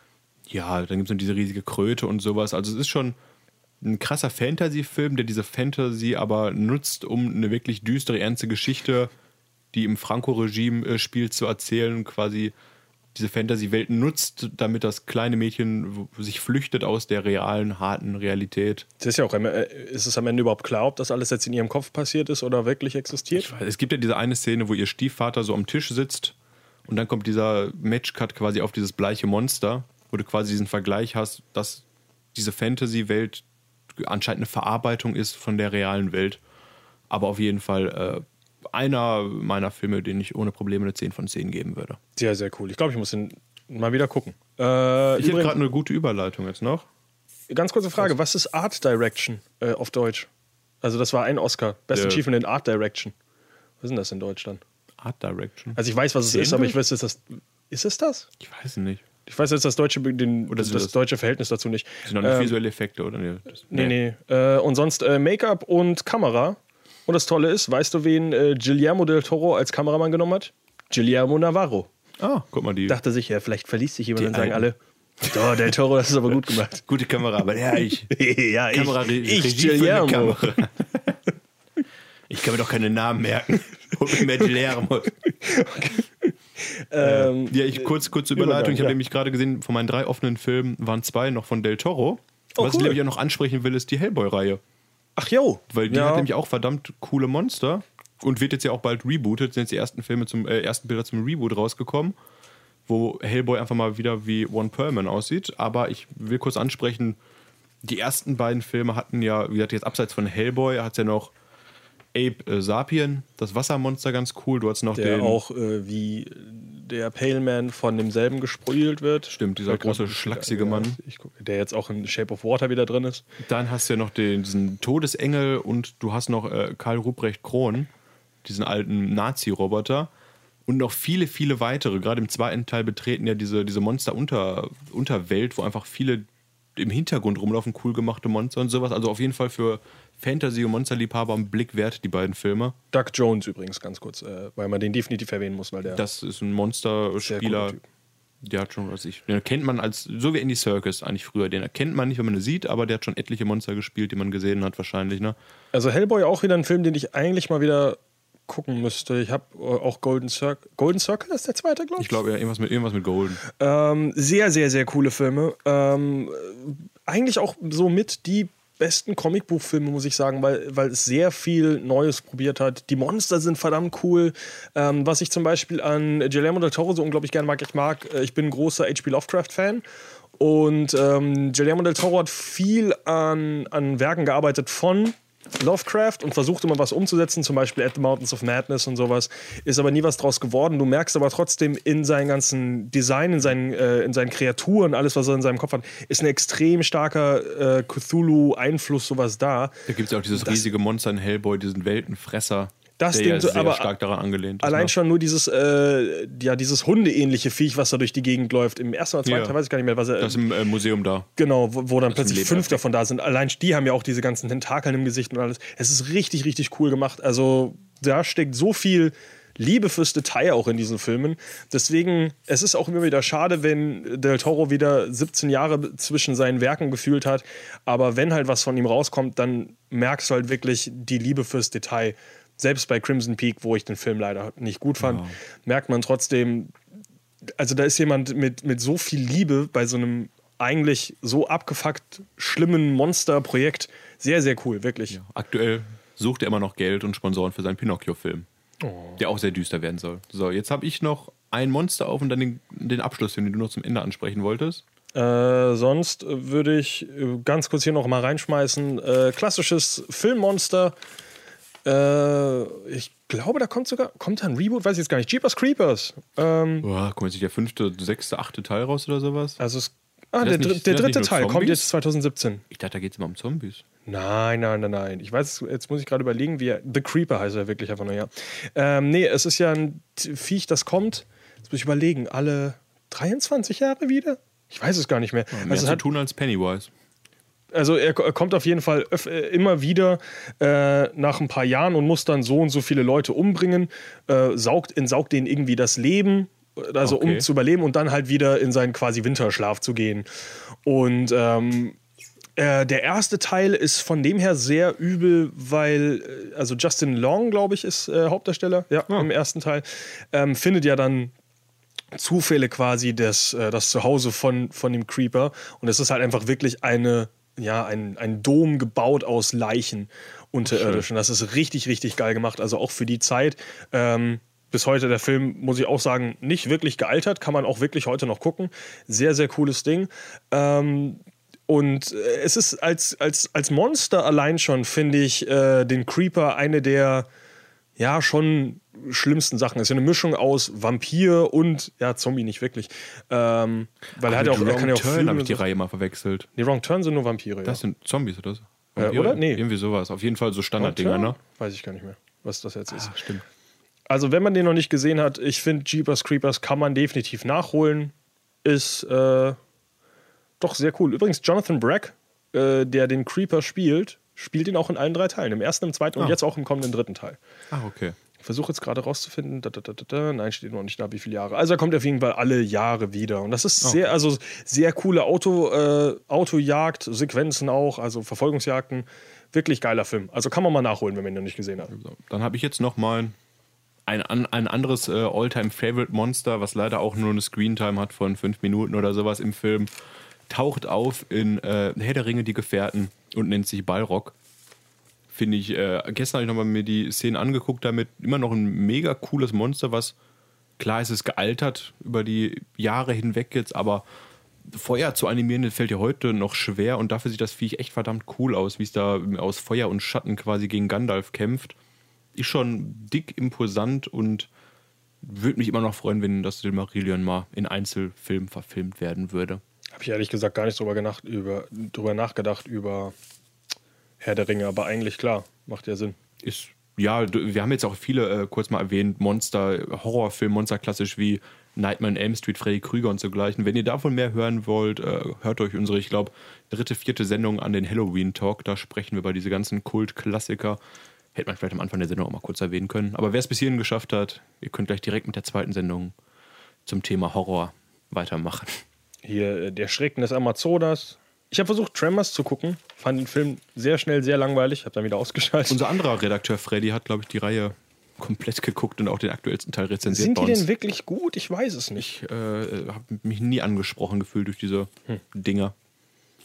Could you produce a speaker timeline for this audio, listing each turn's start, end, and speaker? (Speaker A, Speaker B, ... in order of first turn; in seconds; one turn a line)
Speaker A: 0.5-3.2
Speaker A: 3.8-9.1
Speaker A: 9.7-12.5
Speaker A: 13.2-18.9
Speaker B: 19.0-23.5
Speaker A: 23.3-26.4
Speaker A: 26.9-36.4
Speaker A: 37.1-42.0
Speaker B: 42.2-45.6
Speaker A: 45.2-46.9
Speaker B: 47.5-50.3
Speaker B: 50.8-53.1
Speaker A: 51.9-52.2
Speaker B: 53.8-54.6
Speaker A: 55.0-56.8
Speaker B: 55.8-58.3
Speaker A: 58.4-59.0
Speaker B: 59.3-62.5
Speaker A: 60.5-60.9
Speaker A: 62.0-64.0
Speaker B: 63.7-71.9
Speaker A: 72.2-73.0
Speaker B: 72.9-76.9
Speaker A: 74.2-74.7
Speaker A: 76.9-78.1
Speaker B: 78.1-80.4
Speaker A: 78.7-81.2
Speaker A: 82.3-85.2
Speaker B: 85.4-89.0
Speaker A: 87.0-94.6
Speaker B: 92.6-93.0
Speaker B: 95.2-96.3
Speaker A: 95.7-102.2
Speaker A: 102.9-107.2
Speaker A: 107.8-111.3
Speaker A: 112.1-115.4
Speaker B: 115.0-123.2
Speaker A: 119.3-121.0
Speaker A: 123.4-127.9
Speaker A: 128.4-130.1
Speaker A: 130.7-142.8
Speaker B: 142.9-146.0
Speaker A: 145.9-147.8
Speaker B: 147.2-147.8
Speaker A: 148.4-155.4
Speaker B: 155.7-162.2
Speaker A: 162.0-163.4
Speaker B: 163.6-179.8
Speaker B: 180.4-199.8
Speaker A: 199.9-204.9
Speaker B: 200.3-200.7
Speaker B: 203.0-203.9
Speaker B: 204.6-210.4
Speaker A: 209.2-209.6
Speaker A: 210.2-211.3
Speaker B: 211.4-236.7
Speaker A: 212.1-212.8
Speaker A: 235.0-235.3
Speaker B: 237.6-245.2
Speaker A: 245.1-248.5
Speaker B: 248.8-249.2
Speaker A: 249.2-254.8
Speaker B: 255.1-260.9
Speaker B: 261.9-266.9
Speaker A: 266.8-269.6
Speaker B: 269.6-272.6
Speaker A: 270.4-271.9
Speaker A: 272.7-273.8
Speaker B: 274.1-286.0
Speaker A: 285.5-286.9
Speaker B: 287.7-300.3
Speaker A: 297.0-297.5
Speaker B: 300.9-302.0
Speaker B: 302.6-311.3
Speaker B: 312.1-337.3
Speaker A: 320.6-321.1
Speaker B: 338.0-345.6
Speaker A: 344.2-346.5
Speaker B: 346.6-347.8
Speaker A: 347.6-351.4
Speaker B: 349.0-349.6
Speaker B: 350.8-353.1
Speaker A: 352.9-353.4
Speaker B: 354.1-358.1
Speaker B: 358.6-359.6
Speaker B: 360.6-367.4
Speaker A: 367.7-368.2
Speaker B: 368.4-381.9
Speaker A: 373.8-374.1
Speaker A: 381.9-383.4
Speaker A: 384.1-389.9
Speaker A: 390.5-394.4
Speaker A: 395.3-400.1
Speaker A: 400.8-404.1
Speaker A: 404.7-411.8
Speaker A: 412.4-414.5
Speaker A: 415.2-419.6
Speaker B: 419.9-423.1
Speaker B: 424.2-426.2
Speaker A: 426.4-440.8
Speaker A: 441.4-446.1
Speaker A: 446.9-448.8
Speaker B: 449.2-455.8
Speaker A: 455.7-460.7
Speaker B: 460.1-462.1
Speaker A: 462.0-465.7